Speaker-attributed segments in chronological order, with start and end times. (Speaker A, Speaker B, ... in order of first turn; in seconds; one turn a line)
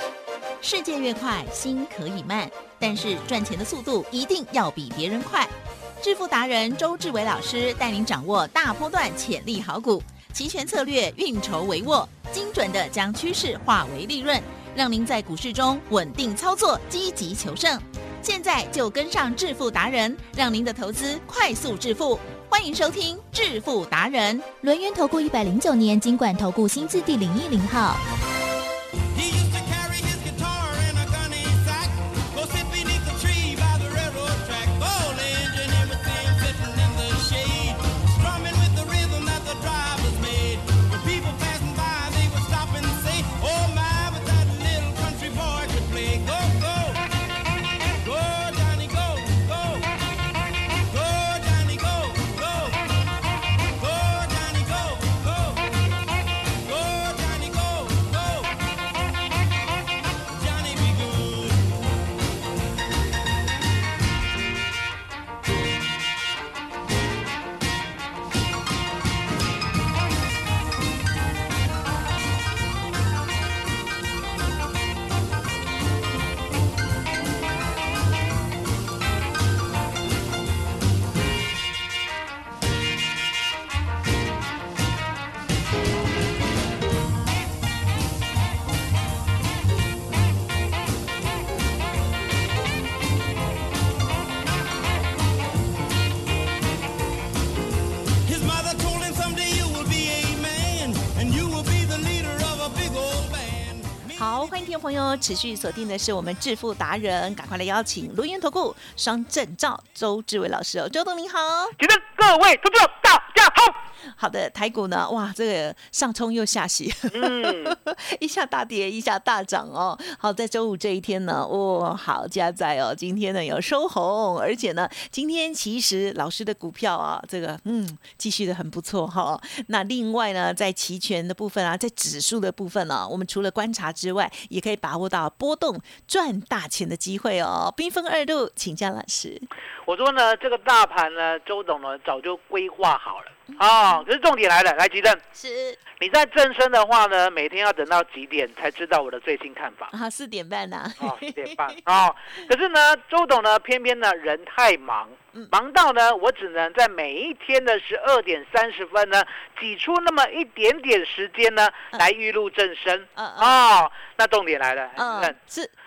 Speaker A: 0.6-24.5
Speaker B: 24.6-28.0
Speaker C: 29.1-47.0
Speaker C: 48.0-50.0
Speaker C: 50.7-53.1
Speaker C: 53.8-55.8
Speaker C: 56.6-58.6
Speaker C: 60.3-61.8
Speaker C: 98.2-104.5
Speaker D: 104.2-111.8
Speaker E: 111.8-113.8
Speaker D: 114.1-139.5
Speaker E: 117.1-117.8
Speaker E: 139.9-145.2
Speaker D: 143.6-144.0
Speaker D: 145.3-145.8
Speaker E: 146.0-149.9
Speaker D: 149.9-151.8
Speaker E: 151.0-165.4
Speaker D: 163.2-163.6
Speaker D: 165.0-165.7